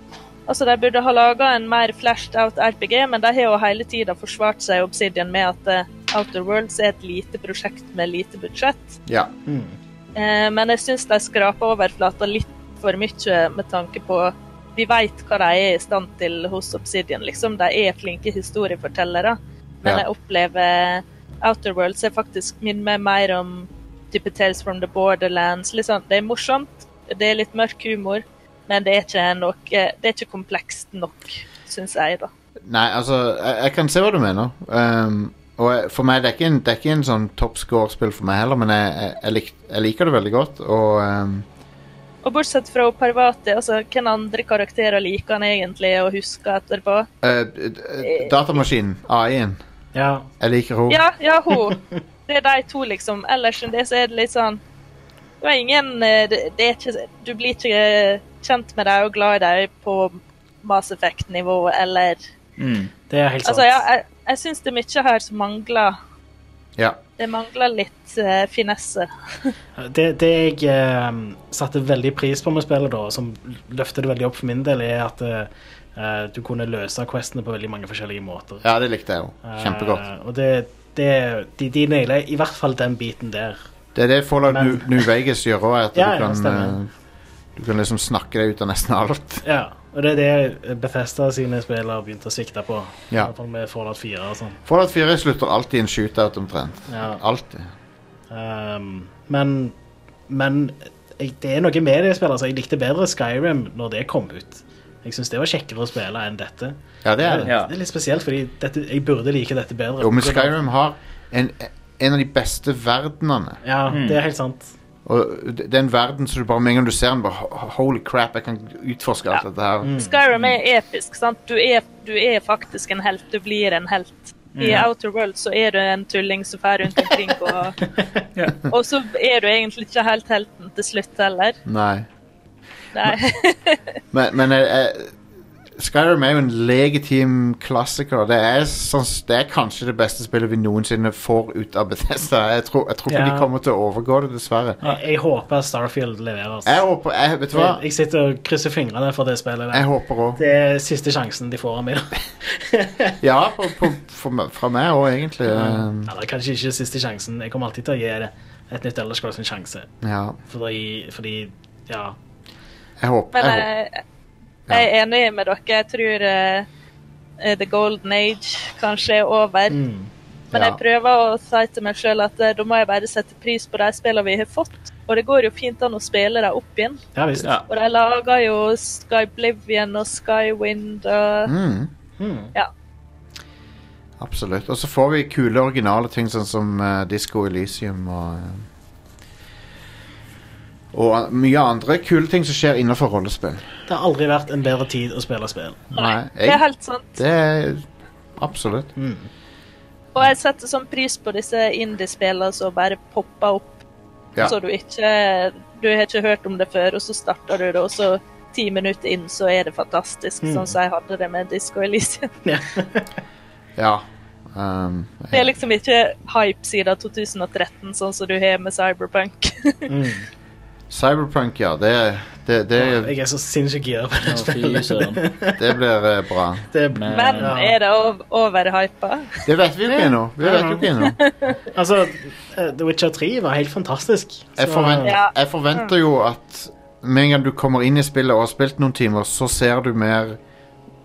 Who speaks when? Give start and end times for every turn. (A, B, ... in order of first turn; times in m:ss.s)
0:00.5-0:09.0 A
0:09.1-0:09.3 B
0:09.5-0:09.8 C
0:10.1-0:32.3 A
0:32.6-0:41.5 B
0:42.2-0:47.1 A
0:47.2-0:49.6 B
0:48.0-0:48.6 A
0:49.9-0:50.3 C
0:50.4-0:51.0 B
0:50.9-0:54.6 A
0:55.4-1:02.2 A
1:02.6-1:02.9 D
1:03.1-1:03.8 C
1:03.4-1:06.0 A
1:07.2-1:09.5 A
1:09.8-1:18.6 C
1:18.6-1:20.0 B
1:19.4-1:23.6 C
1:23.9-1:26.9 B
1:24.5-1:25.0 C
1:25.9-1:26.8 C
1:27.6-1:29.4 B
1:29.4-1:34.6 C
1:34.6-1:37.7 B
1:36.9-1:37.2 C
1:38.3-1:39.7 C
1:40.3-1:50.6 C
1:47.0-1:47.5 B
1:47.4-1:47.7 D
1:50.0-1:53.6 B
1:53.6-1:54.7 C
1:53.9-1:54.2 D
1:55.0-2:00.0 B
1:59.3-2:07.8 A
1:59.8-2:00.1 C
2:04.5-2:04.9 D
2:08.7-2:11.6 A
2:11.6-2:12.1 B
2:12.9-2:13.8 A
2:14.1-2:15.1 B
2:15.8-2:24.8 B
2:23.1-2:23.5 C
2:24.8-2:26.8 C
2:26.6-2:27.8 B
2:27.5-2:33.2 C
2:29.7-2:30.4 B
2:33.2-2:36.1 B
2:35.5-2:39.9 C
2:40.0-2:40.4 B
2:40.5-2:42.2 C
2:43.0-2:43.7 B
2:43.3-2:44.0 A
2:44.7-2:46.7 A
2:47.4-2:49.8 A
2:49.7-2:50.1 C
2:50.5-2:57.0 A
2:50.5-2:50.8 B
2:57.1-2:57.5 C
2:57.4-2:57.6 D
2:57.7-3:01.5 A
3:01.4-3:01.9 B
3:02.2-3:02.5 C
3:04.2-3:08.6 B
3:10.9-3:13.6 B
3:13.9-3:15.8 C
3:15.9-3:17.1 A
3:15.9-3:16.6 B
3:17.2-3:18.9 B
3:19.0-3:19.3 C
3:20.1-3:23.7 A
3:24.4-3:32.3 A
3:30.4-3:30.7 C
3:32.4-3:33.1 C
3:33.8-3:35.5 B
3:35.3-3:39.9 A
3:39.9-3:40.2 C
3:40.9-3:43.1 B
3:42.8-3:45.6 C
3:44.2-3:45.2 D
3:45.6-3:46.7 B
3:46.7-3:47.8 C
3:46.9-3:47.5 D
3:47.1-3:49.3 A
3:49.4-3:51.2 B
3:49.9-3:50.8 C
3:51.0-3:51.5 A
3:51.7-3:55.1 C
3:54.6-4:00.4 B
3:55.0-3:55.9 A